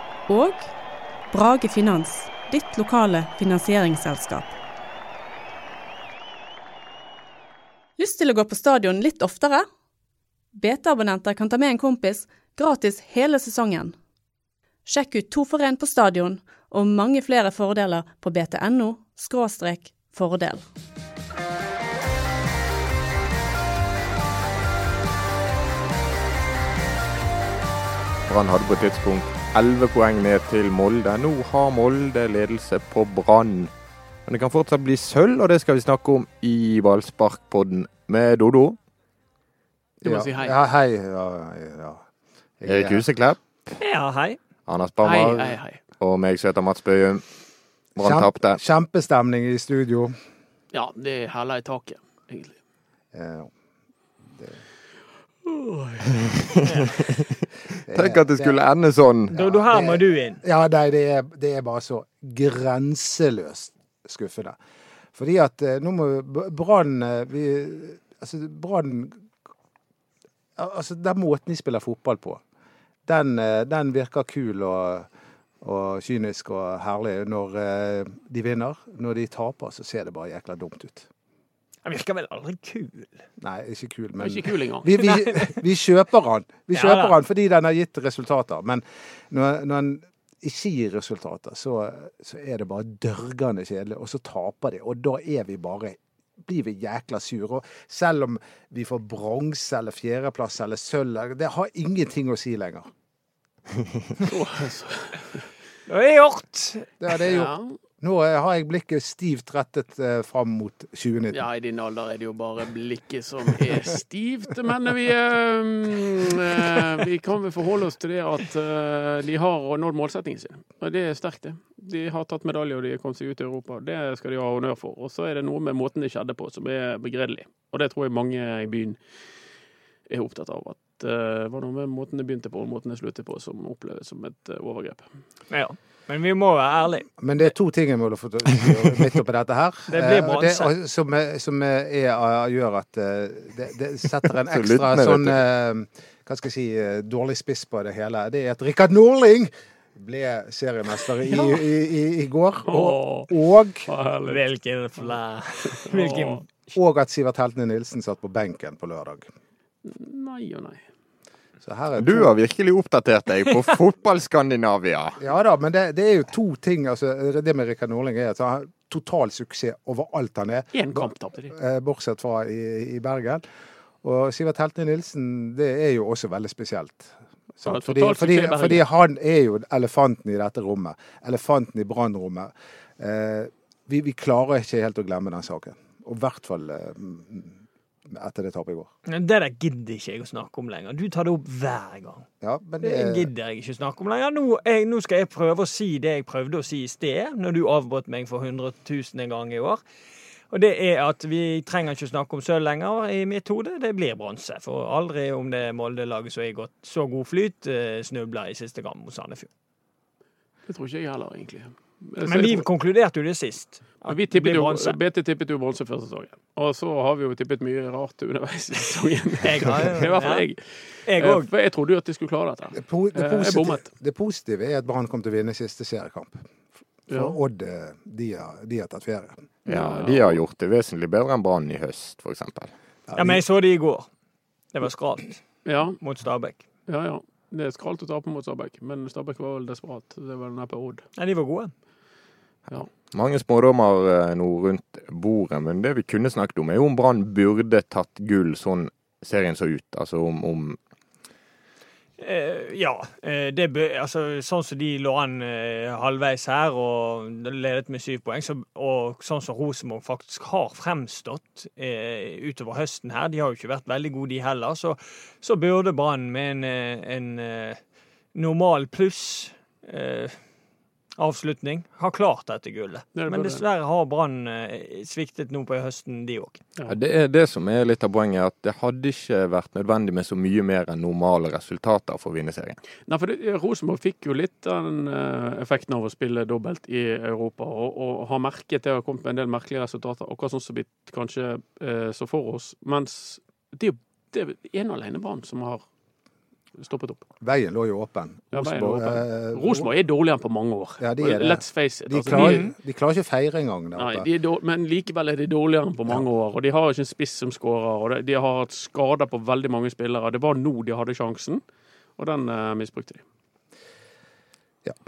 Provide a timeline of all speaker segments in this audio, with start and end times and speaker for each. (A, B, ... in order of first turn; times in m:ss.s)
0:00.3-0:00.7 A
0:01.3-0:04.5 A
0:08.0-0:09.6 A
0:10.5-0:13.9 A
0:14.8-0:20.6 A
0:28.3-0:33.7 B
0:34.2-0:38.8 B
0:40.0-0:40.6 C
0:40.0-0:42.0 D
0:42.6-0:43.0 D
0:42.6-0:43.4 B
0:43.8-0:44.4 E
0:44.7-0:47.2 B
0:45.0-0:45.8 C
0:48.0-0:48.6 B
0:48.0-0:50.1 D
0:50.7-0:52.6 C
0:53.1-0:53.5 D
0:55.4-0:56.1 C
0:56.5-0:59.4 B
0:57.9-0:58.6 D
0:59.3-1:00.4 E
0:59.3-1:04.6 D
1:05.1-1:09.2 D
1:10.6-1:12.4 D
1:13.0-1:15.1 D
1:15.6-1:21.1 D
1:21.8-1:23.2 E
1:23.4-1:42.9 D
1:24.2-1:24.9 C
1:25.0-1:25.6 E
1:26.7-1:27.2 E
1:44.2-1:45.5 C
1:45.9-1:46.9 E
1:47.0-1:51.4 D
1:47.2-1:47.7 C
1:51.3-2:09.0 C
2:10.1-2:15.0 C
2:15.5-2:17.1 E
2:17.2-2:33.9 D
2:19.9-2:20.7 E
2:24.5-2:25.3 B
2:32.7-2:33.3 C
2:33.8-2:34.4 C
2:34.2-2:36.7 E
2:35.8-2:36.4 C
2:36.7-2:39.2 D
2:39.8-2:40.8 C
2:41.6-2:42.3 D
2:42.0-2:45.2 B
2:45.2-2:53.4 D
2:50.7-2:51.5 C
2:54.0-3:08.9 D
2:57.6-2:58.8 C
3:09.1-3:12.2 E
3:12.4-3:13.3 D
3:12.8-3:19.8 E
3:20.5-3:29.5 E
3:30.7-3:32.6 C
3:32.2-3:35.0 E
3:34.1-3:43.9 C
3:39.4-3:40.4 E
3:41.0-3:41.5 E
3:42.8-3:46.4 D
3:47.1-3:49.5 D
3:47.1-3:47.4 C
3:49.6-3:50.4 C
3:49.7-3:52.7 B
3:53.1-3:53.4 D
3:53.1-3:54.1 E
3:54.7-3:55.4 E
3:55.6-3:56.0 C
3:56.0-3:56.6 E
3:56.9-4:01.0 C
4:01.2-4:01.7 E
4:03.1-4:10.8 B
4:12.2-4:27.8 E
4:28.3-4:30.4 E
4:31.2-4:36.6 E
4:33.2-4:33.6 C
4:36.9-4:42.8 B
4:43.1-4:55.8 C
4:56.8-4:57.2 C
4:57.4-4:59.9 D
4:58.5-5:02.6 C
5:01.0-5:04.3 D
5:02.3-5:02.7 E
5:04.0-5:11.6 C
5:12.2-5:13.2 C